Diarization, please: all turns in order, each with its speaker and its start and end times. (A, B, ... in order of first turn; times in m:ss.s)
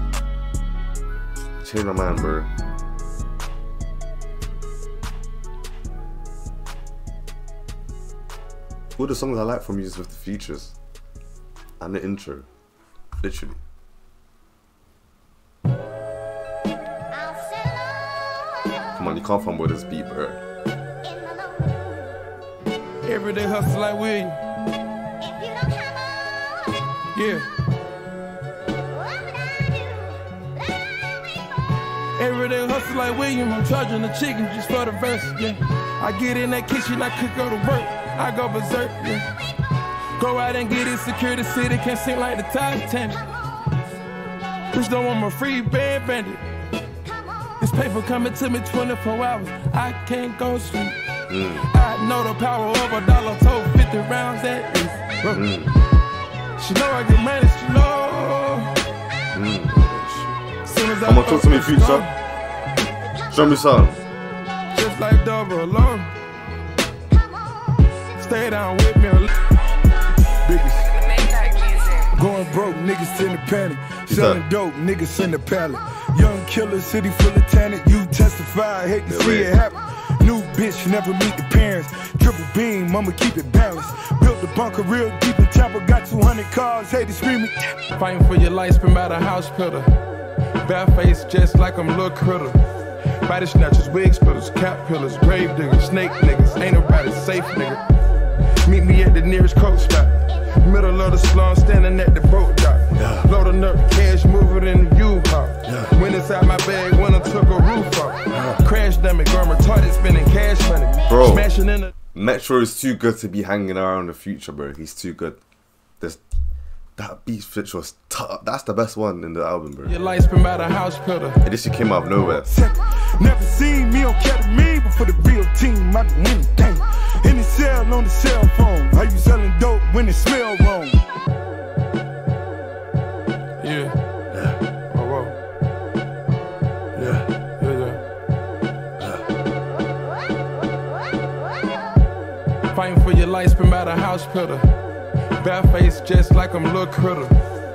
0:01.6-0:02.5 A
0:09.0-0:10.7 A
0:11.8-0:12.5 A
0:13.2-0:13.6 A
0:18.9-0:20.4 A
0:23.0-0:24.4 B
0:27.1-0:27.5 B
0:32.2-0:39.2 B
0:40.2-0:43.2 B
0:44.7-0:46.4 B
0:47.6-0:51.0 B
0:51.3-0:51.6 A
0:51.7-0:55.5 B
0:55.3-0:55.7 A
0:56.6-0:58.7 B
0:59.3-0:59.8 A
0:59.7-1:02.1 B
1:01.0-1:02.0 A
1:03.3-1:04.0 A
1:04.7-1:06.1 B
1:08.2-1:09.3 B
1:10.4-1:11.0 C
1:12.1-1:27.7 C
1:14.1-1:14.4 A
1:19.0-1:19.5 A
1:27.9-1:29.9 B
1:30.6-1:32.6 B
1:33.2-1:37.8 B
1:38.6-1:51.9 B
1:42.9-1:43.3 A
1:45.6-1:45.9 A
1:48.3-1:48.6 A
1:51.1-1:51.5 A
1:52.1-1:55.4 A
1:57.0-1:59.9 A
1:59.8-2:01.4 B
2:01.4-2:02.5 A
2:02.4-2:11.0 C
2:13.6-2:13.9 B
2:14.3-2:14.6 A
2:14.9-2:15.4 B
2:16.9-2:18.0 B
2:17.0-2:17.2 A
2:19.0-2:19.2 A
2:22.7-2:24.7 B
2:25.4-2:27.4 B